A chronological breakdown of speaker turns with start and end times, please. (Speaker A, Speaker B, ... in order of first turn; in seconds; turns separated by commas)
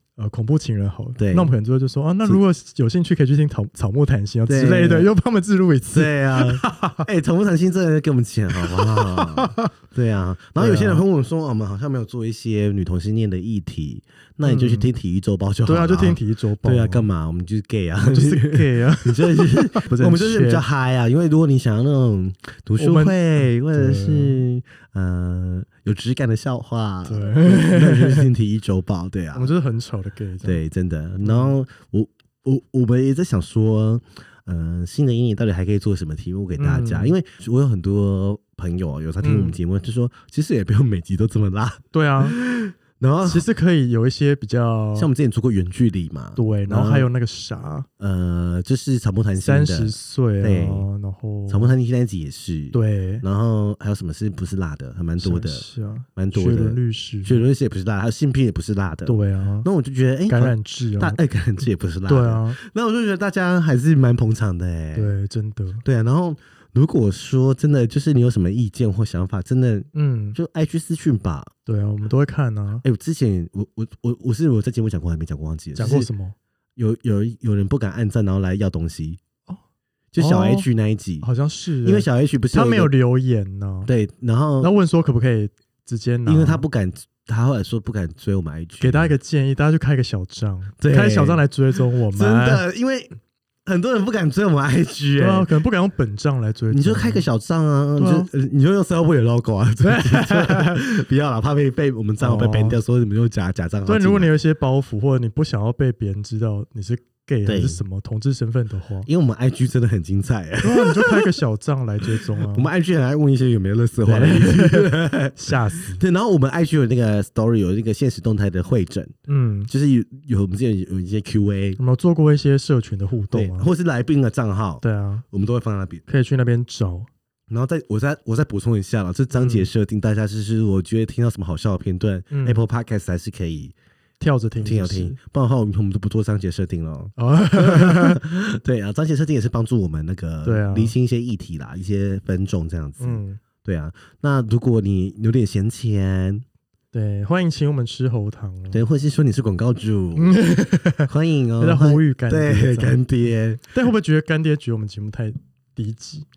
Speaker A: 0.2-7.0, Speaker B: 1.2-1.6, Speaker B: 4.5-5.1, Speaker B: 5.9-29.5, Speaker A: 8.7-9.7, Speaker A: 10.6-11.0, Speaker A: 14.4-14.9, Speaker A: 15.6-17.1, Speaker A: 18.0-20.6, Speaker A: 22.8-24.4, Speaker A: 27.1-28.3, Speaker A: 29.3-30.6, Speaker B: 30.4-43.5, Speaker A: 31.2-31.6, Speaker A: 36.6-37.1, Speaker A: 39.2-39.6, Speaker A: 41.9-42.4, Speaker A: 43.2-45.1, Speaker B: 44.9-47.1, Speaker A: 46.4-47.9, Speaker B: 48.0-50.9, Speaker A: 49.4-51.7, Speaker B: 51.5-65.1, Speaker A: 52.7-53.2, Speaker A: 55.2-57.4, Speaker A: 59.0-59.7, Speaker A: 60.3-61.2, Speaker A: 62.0-62.6, Speaker A: 64.9-65.8, Speaker B: 65.8-71.5, Speaker A: 69.9-70.4, Speaker A: 71.7-72.8, Speaker B: 72.8-76.1, Speaker A: 75.7-76.3, Speaker B: 76.8-79.2, Speaker B: 80.1-81.3, Speaker A: 80.2-80.7, Speaker A: 81.2-83.9, Speaker B: 81.8-82.9, Speaker B: 83.8-84.7, Speaker A: 84.6-86.6, Speaker B: 86.2-89.1, Speaker A: 88.8-92.6, Speaker B: 90.8-91.5, Speaker B: 92.1-95.5, Speaker A: 95.2-97.2, Speaker B: 96.7-104.3, Speaker A: 98.0-98.3, Speaker A: 99.8-100.8, Speaker A: 102.2-102.8, Speaker A: 103.8-109.1, Speaker B: 107.5-107.8, Speaker B: 109.0-111.3, Speaker A: 110.6-112.7, Speaker B: 112.1-119.1, Speaker A: 114.0-116.0, Speaker A: 119.3-119.7, Speaker B: 119.7-121.8, Speaker A: 121.8-123.7, Speaker B: 123.3-126.0, Speaker A: 124.8-125.2, Speaker A: 126.1-127.1, Speaker B: 127.5-133.7, Speaker A: 129.3-129.7, Speaker A: 132.3-132.6, Speaker A: 134.2-135.2, Speaker B: 134.6-146.4, Speaker A: 137.2-138.2, Speaker A: 140.4-140.9, Speaker A: 143.0-143.4, Speaker A: 146.9-148.8, Speaker B: 148.7-150.4, Speaker A: 150.2-153.0, Speaker B: 151.0-153.7, Speaker A: 153.7-156.2